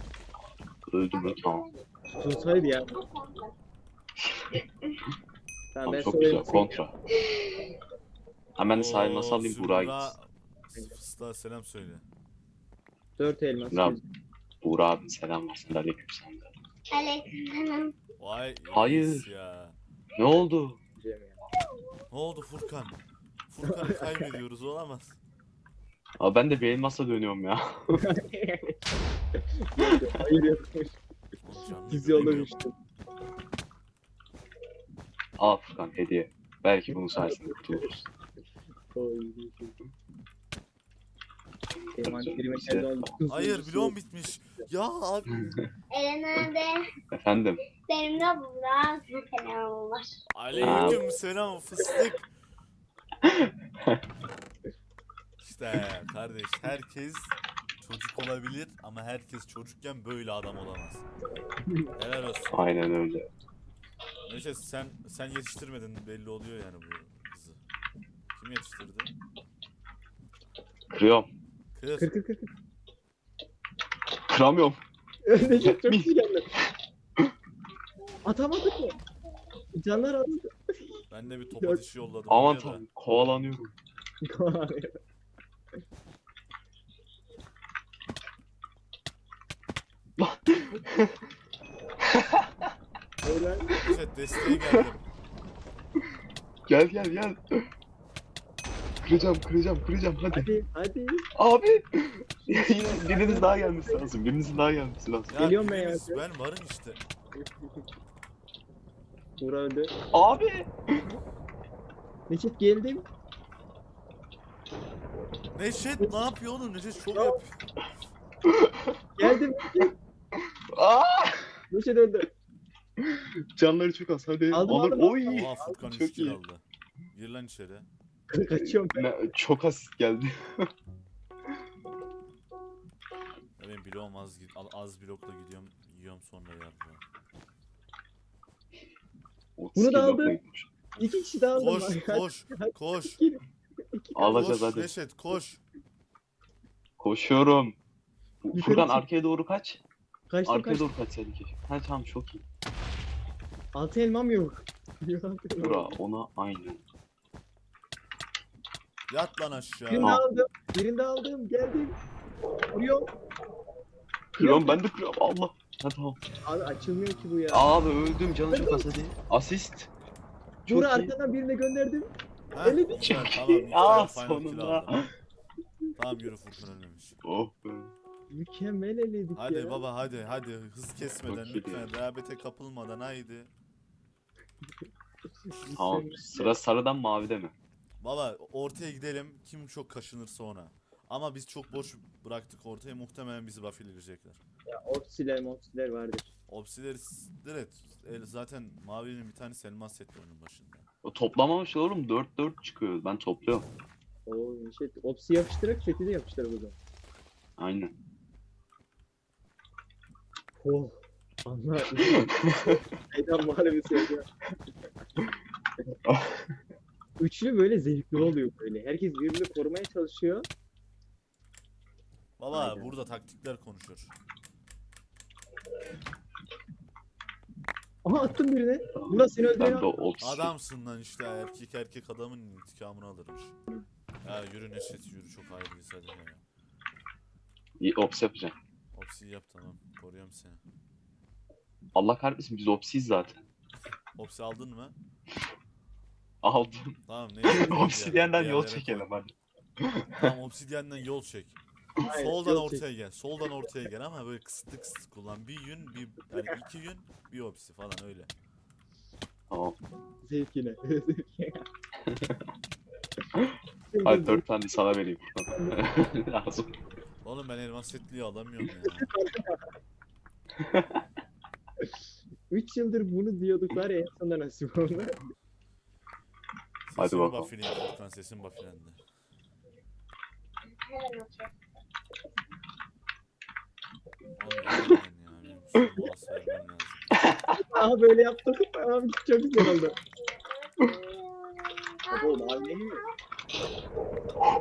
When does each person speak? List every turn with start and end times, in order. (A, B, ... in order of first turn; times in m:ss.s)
0:00.9-0:01.6 A
0:01.2-0:01.7 B
0:02.2-0:03.0 C
0:02.7-0:03.5 B
0:05.7-0:06.8 C
0:05.8-0:06.9 A
0:08.6-0:10.1 A
0:08.7-0:12.0 D
0:13.2-0:14.0 C
0:13.7-0:14.0 A
0:14.6-0:16.5 A
0:16.9-0:17.9 B
0:18.2-0:19.8 D
0:18.7-0:19.3 A
0:20.2-0:20.8 A
0:21.0-0:21.4 C
0:22.1-0:25.2 D
0:23.7-0:24.1 C
0:26.2-0:28.0 A
0:27.9-0:28.8 C
0:29.4-0:30.9 C
0:29.8-0:30.1 A
0:31.4-0:32.5 D
0:31.9-0:32.7 C
0:35.4-0:38.1 A
0:36.9-0:37.9 C
0:38.9-0:39.8 C
0:41.9-0:43.1 A
0:42.0-0:44.0 C
0:43.3-0:45.6 D
0:45.9-0:46.9 B
0:47.1-0:47.6 A
0:47.8-0:50.2 B
0:50.3-0:52.3 D
0:50.6-0:51.0 A
0:53.2-0:54.0 A
0:55.4-1:01.0 D
1:02.0-1:02.6 D
1:02.5-1:03.3 A
1:04.3-1:07.6 D
1:08.3-1:09.1 D
1:10.9-1:11.3 A
1:11.7-1:12.1 D
1:12.0-1:12.5 C
1:14.2-1:14.8 A
1:15.3-1:16.5 C
1:15.5-1:16.1 A
1:18.2-1:19.0 C
1:19.7-1:21.0 C
1:21.1-1:22.8 D
1:22.3-1:23.7 A
1:24.2-1:25.0 C
1:30.2-1:31.2 A
1:32.0-1:32.5 A
1:33.2-1:33.8 C
1:33.8-1:35.0 D
1:34.5-1:34.8 A
1:36.7-1:37.7 A
1:39.0-1:40.5 A
1:40.3-1:41.2 C
1:41.3-1:45.4 A
1:42.4-1:44.1 C
1:45.3-1:47.0 D
1:45.3-1:46.2 C
1:49.4-1:49.9 C
1:50.1-1:51.2 A
1:52.3-1:53.0 C
1:55.5-1:57.6 D
1:57.1-1:57.4 C
1:58.4-1:59.0 A
1:59.2-1:59.9 C
2:00.4-2:01.6 A
2:01.7-2:02.3 C
2:03.0-2:06.4 A
2:04.5-2:05.8 C
2:05.3-2:06.6 D
2:07.1-2:07.9 D
2:08.3-2:09.0 C
2:08.5-2:10.7 A
2:13.6-2:17.0 D
2:19.6-2:20.7 A
2:19.8-2:20.4 C
2:20.9-2:23.2 D
2:21.0-2:23.4 C
2:23.9-2:24.7 C
2:24.1-2:24.9 A
2:24.3-2:25.6 D
2:27.0-2:27.8 A
2:28.4-2:29.8 A
2:28.5-2:29.0 C
2:30.3-2:30.9 C
2:30.4-2:32.4 A
2:33.7-2:35.9 C
2:35.6-2:36.8 A
2:39.1-2:40.2 D
2:39.9-2:42.0 C
2:42.7-2:43.1 C
2:44.3-2:46.2 A
2:44.4-2:44.8 C
2:46.4-2:47.7 C
2:47.5-2:49.9 A
2:48.5-2:49.1 C
2:50.6-2:51.1 A
2:50.7-2:53.2 C
2:52.5-2:55.0 D
2:53.0-2:55.1 A
2:56.0-2:57.2 D
2:57.2-2:57.9 A
2:58.3-2:59.8 C
2:59.3-3:03.5 D
3:01.2-3:01.9 A
3:05.5-3:06.6 C
3:05.7-3:07.5 A
3:08.0-3:14.4 D
3:14.7-3:16.3 C
3:16.5-3:20.8 D
3:21.0-3:23.7 A
3:24.3-3:26.8 C
3:27.6-3:27.9 A
3:30.6-3:34.3 C
3:32.0-3:32.8 A
3:35.9-3:36.6 A
3:37.2-3:40.5 C
3:42.4-3:44.1 D
3:42.5-3:42.9 C
3:48.0-3:49.8 C
3:48.9-3:50.5 A
3:50.2-3:53.6 D
3:54.2-3:56.4 D
3:57.8-3:58.6 A
3:58.9-4:00.6 D
4:01.9-4:03.4 A
4:04.1-4:04.9 D
4:06.4-4:10.3 A
4:07.1-4:09.1 D
4:10.2-4:18.3 D
4:12.0-4:12.8 C
4:19.5-4:19.8 A
4:20.2-4:21.6 C
4:22.0-4:22.4 A
4:23.3-4:26.8 A
4:23.9-4:24.5 C
4:25.5-4:25.8 C
4:27.2-4:29.1 D
4:29.0-4:29.6 C
4:30.6-4:31.0 A
4:32.5-4:35.2 C
4:36.9-4:39.0 D
4:37.0-4:37.5 A
4:40.6-4:41.5 B
4:44.4-4:47.0 D
4:47.2-4:47.5 A
4:47.6-4:50.0 C
4:50.3-4:53.1 B
4:52.1-4:53.0 C